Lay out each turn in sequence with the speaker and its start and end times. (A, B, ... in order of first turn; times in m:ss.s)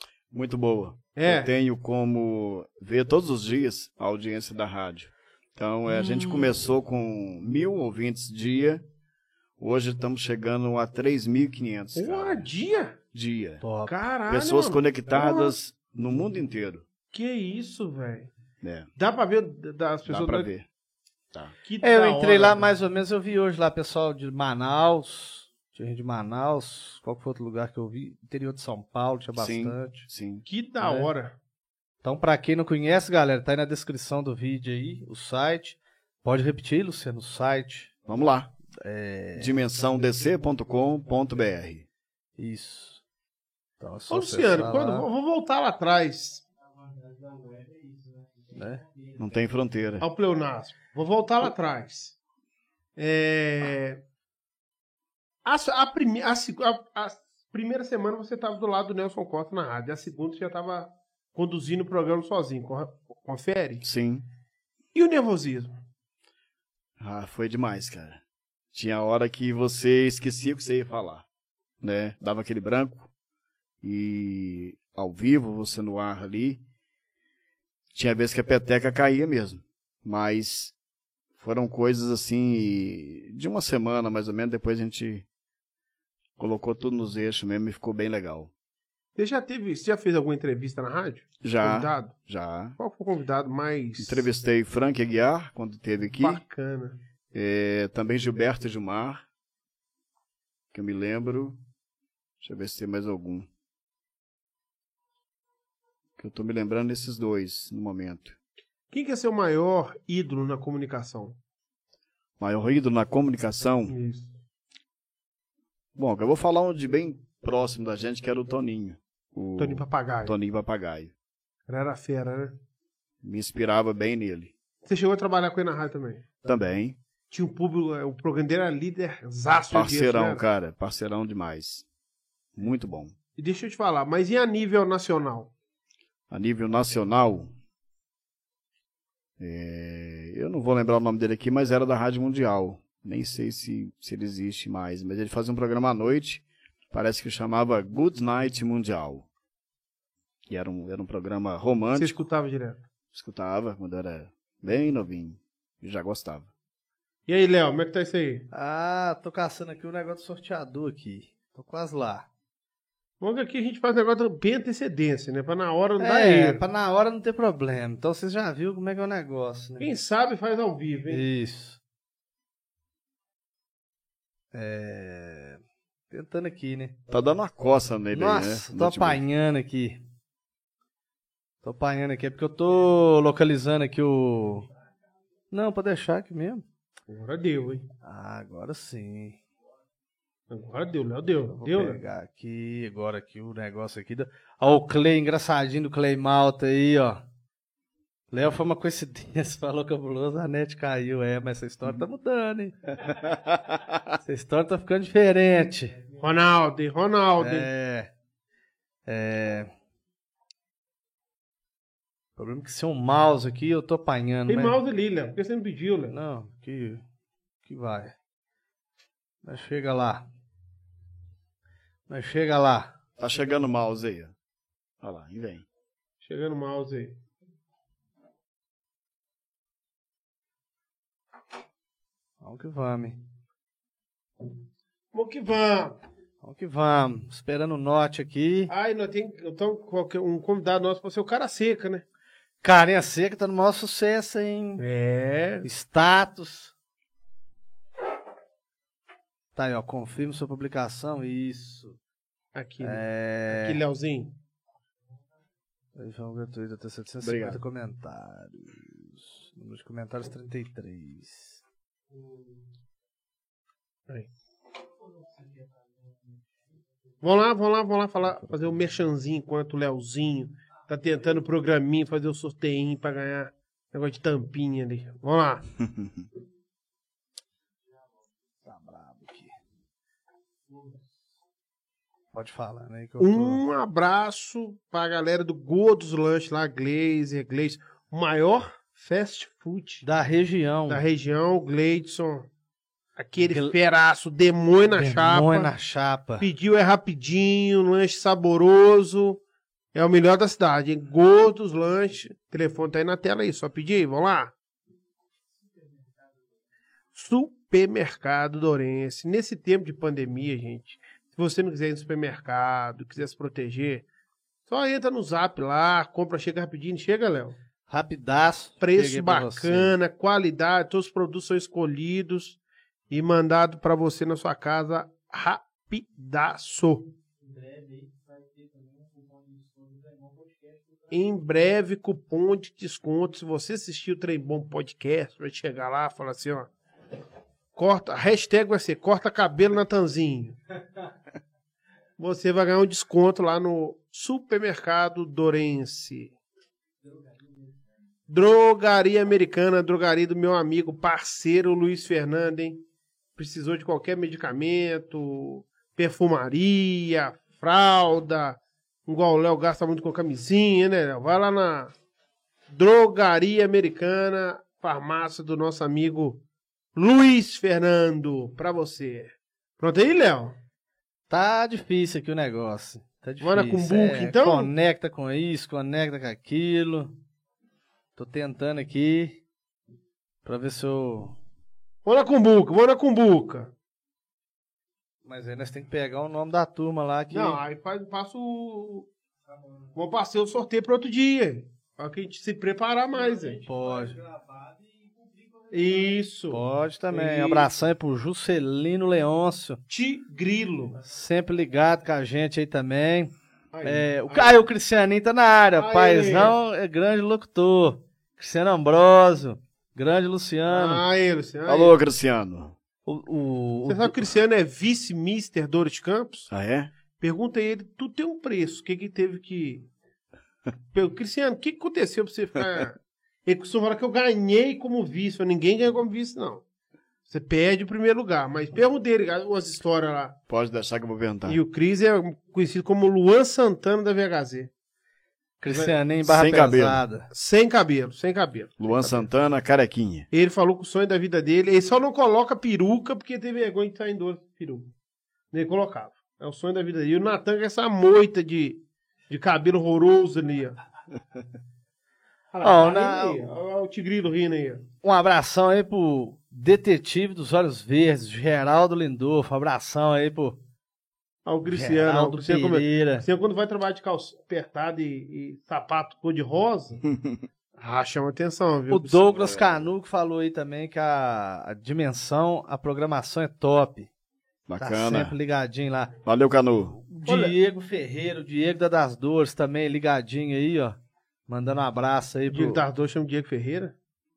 0:00.3-0:08.8 A
0:01.1-0:01.5 B
0:06.0-0:06.3 C
0:09.6-0:12.5 A
0:11.9-0:13.0 B
0:13.1-0:13.6 A
0:13.6-0:13.9 C
0:13.9-0:15.5 B
0:14.3-0:16.8 A
0:17.1-0:18.3 B
0:18.6-0:18.9 A
0:19.0-0:20.5 B
0:20.1-0:20.6 A
0:21.6-0:22.7 B
0:21.8-0:30.0 C
0:29.4-0:30.4 A
0:30.4-0:31.4 B
0:30.8-0:31.1 C
0:32.0-0:37.9 C
0:38.0-0:38.5 A
0:38.8-0:39.5 C
0:39.4-0:41.9 A
0:42.4-0:43.0 C
0:43.8-0:45.1 C
0:44.1-0:46.4 B
0:48.5-0:48.8 C
0:49.2-0:50.0 A
0:50.0-0:52.1 B
0:53.0-0:54.0 B
0:55.4-1:03.8 B
1:03.8-1:04.2 A
1:04.9-1:05.7 B
1:07.0-1:08.2 A
1:08.7-1:11.2 A
1:11.8-1:13.1 A
1:13.8-1:16.6 A
1:17.9-1:20.8 A
1:21.4-1:25.2 A
1:26.4-1:28.5 A
1:29.2-1:32.2 B
1:31.4-1:32.8 A
1:32.8-1:34.3 B
1:34.0-1:36.4 A
1:36.1-1:37.0 B
1:37.3-1:39.2 A
1:40.7-1:41.6 A
1:42.4-1:43.5 A
1:46.2-1:48.4 A
1:48.9-1:51.4 B
1:52.4-1:53.9 A
1:53.9-1:54.3 B
1:56.0-2:01.1 A
1:59.6-2:00.3 B
2:01.7-2:02.5 B
2:03.2-2:04.5 A
2:04.8-2:06.3 B
2:06.4-2:07.0 A
2:07.3-2:10.4 B
2:09.7-2:11.8 A
2:12.5-2:13.1 A
2:13.4-2:15.5 B
2:16.3-2:17.5 A
2:19.4-2:29.2 A
2:30.5-2:32.2 A
2:31.9-2:32.8 B
2:33.1-2:36.5 A
2:37.3-2:38.5 B
2:38.5-2:42.2 C
2:43.2-2:46.6 B
2:46.0-2:49.9 C
2:49.8-2:51.2 B
2:51.1-2:51.8 C
2:54.5-2:57.0 C
2:57.1-2:59.2 A
2:58.1-3:00.0 C
3:01.6-3:04.7 C
3:05.5-3:06.6 C
3:07.1-3:07.8 B
3:08.0-3:09.4 C
3:10.5-3:12.0 B
3:11.5-3:17.2 C
3:18.3-3:22.7 C
3:24.2-3:26.0 C
3:26.2-3:27.7 B
3:27.4-3:28.1 C
3:29.1-3:29.7 C
3:32.4-3:34.8 C
3:34.5-3:36.1 B
3:36.1-3:37.0 C
3:37.6-3:38.1 C
3:39.4-3:40.2 C
3:42.1-3:42.9 C
3:43.2-3:44.3 A
3:45.0-3:45.6 A
3:46.2-3:47.1 B
3:52.4-3:53.2 C
3:55.1-3:56.0 B
3:56.4-3:58.7 C
3:58.7-4:02.0 B
4:02.6-4:04.8 C
4:04.8-4:05.7 B
4:05.6-4:06.7 C
4:09.5-4:12.0 C
4:12.5-4:14.3 B
4:12.8-4:13.8 C
4:16.0-4:21.6 C
4:17.2-4:17.6 A
4:27.2-4:35.7 B
4:38.6-4:39.5 C
4:42.3-4:43.6 C
4:43.2-4:50.0 B
4:50.0-4:51.0 C
4:50.9-4:52.5 B
4:53.2-4:55.7 B
4:55.0-4:56.4 C
4:56.4-4:59.4 B
4:59.9-5:04.5 B
5:07.1-5:14.0 B
5:14.7-5:17.6 B
5:17.9-5:19.9 C
5:18.8-5:22.6 B
5:23.1-5:27.1 B
5:31.1-5:36.7 B
5:37.7-5:40.6 B
5:42.2-5:46.3 B
5:48.3-5:52.8 B
5:53.4-6:01.9 B
6:02.7-6:06.4 B
6:06.9-6:10.6 B
6:11.3-6:17.2 C
6:13.4-6:14.7 B
6:18.2-6:19.4 C
6:20.4-6:21.4 C
6:22.0-6:23.7 B
6:25.2-6:27.6 C
6:27.3-6:29.1 B
6:29.9-6:33.6 B
6:33.6-6:34.2 C
6:35.7-6:37.7 B
6:36.5-6:39.8 C
6:39.9-6:41.0 B
6:41.0-6:43.3 C
6:43.7-6:44.6 B
6:43.8-6:51.0 C
6:45.8-6:46.6 B
6:50.7-6:51.9 B
6:51.6-6:52.8 A
6:53.0-6:54.3 C
6:53.9-6:56.5 B
6:56.5-6:56.9 A
6:57.2-6:59.9 B
7:00.9-7:06.6 B
7:07.3-7:10.4 B
7:10.5-7:11.6 A
7:11.4-7:14.7 B
7:15.6-7:17.3 C
7:16.2-7:17.0 A
7:17.3-7:19.2 B
7:18.8-7:20.3 A
7:20.3-7:24.9 B
7:25.5-7:30.8 B
7:32.5-7:34.8 B
7:32.6-7:33.5 C
7:35.0-7:40.6 C
7:41.4-7:47.0 B
7:41.6-7:43.2 C
7:47.1-7:47.4 A
7:47.8-7:49.3 B
7:48.9-7:54.1 C
7:49.4-7:49.9 A
7:54.7-7:55.4 A
7:54.8-7:56.1 C
7:56.2-7:57.0 A
7:57.1-7:57.6 B
7:57.2-8:01.0 C
8:01.5-8:02.8 C
8:02.5-8:03.9 B